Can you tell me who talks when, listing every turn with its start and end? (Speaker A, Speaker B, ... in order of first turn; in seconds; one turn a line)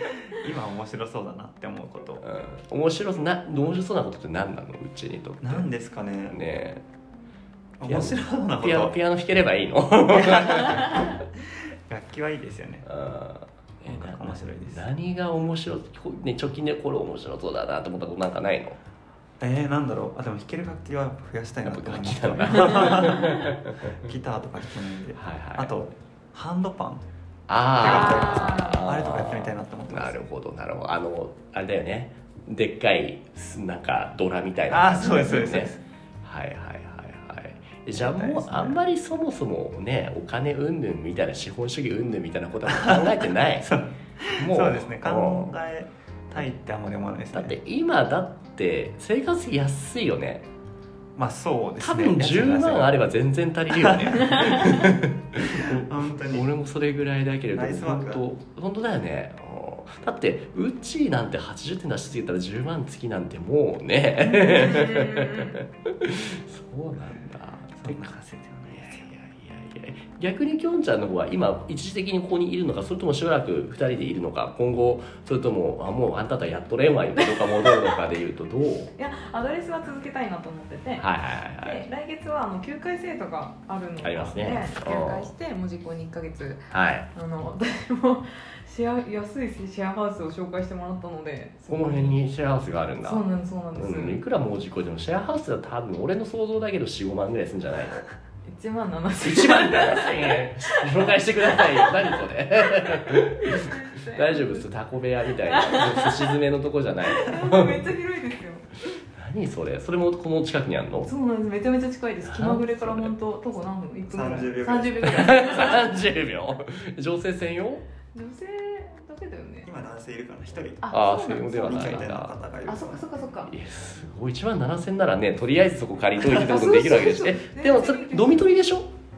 Speaker A: 0.3-2.2
Speaker B: 2.2-5.7
Speaker A: 5.4-6.4
Speaker B: 6.3-6.8
Speaker A: 7.8-9.0
Speaker B: 7.8-11.1
Speaker A: 10.1-12.9
Speaker B: 12.9-18.8
Speaker A: 13.9-14.8
Speaker A: 19.4-27.1
Speaker B: 21.7-24.0
Speaker C: 23.0-23.4
Speaker B: 25.2-25.8
Speaker B: 27.5-43.7
Speaker A: 27.8-30.2
Speaker C: 27.8-28.8
Speaker A: 34.7-35.8
Speaker C: 35.0-35.5
Speaker A: 38.0-38.8
Speaker A: 43.6-47.6
Speaker B: 44.4-45.5
Speaker B: 47.3-50.5
Speaker A: 51.2-53.0
Speaker B: 51.8-68.1
Speaker A: 53.7-54.6
Speaker A: 55.4-56.5
Speaker A: 57.5-58.2
Speaker C: 64.3-65.6
Speaker A: 67.8-69.1
Speaker B: 68.7-78.9
Speaker C: 77.2-78.0
Speaker C: 79.0-81.1
Speaker B: 81.0-81.8
Speaker C: 81.6-92.2
Speaker B: 84.0-85.3
Speaker B: 86.7-87.1
Speaker B: 91.7-98.1
Speaker C: 93.0-94.2
Speaker C: 98.5-102.2
Speaker B: 99.2-107.9
Speaker C: 102.8-104.7
Speaker C: 105.4-106.3
Speaker C: 107.1-108.7
Speaker B: 109.1-111.1
Speaker C: 111.0-115.9
Speaker B: 112.3-113.1
Speaker A: 114.1-115.2
Speaker B: 115.0-117.8
Speaker C: 118.1-119.7
Speaker A: 119.7-120.9
Speaker C: 120.8-122.1
Speaker B: 120.9-122.3
Speaker A: 121.6-123.0
Speaker C: 122.7-123.5
Speaker B: 123.5-128.9
Speaker C: 126.2-128.5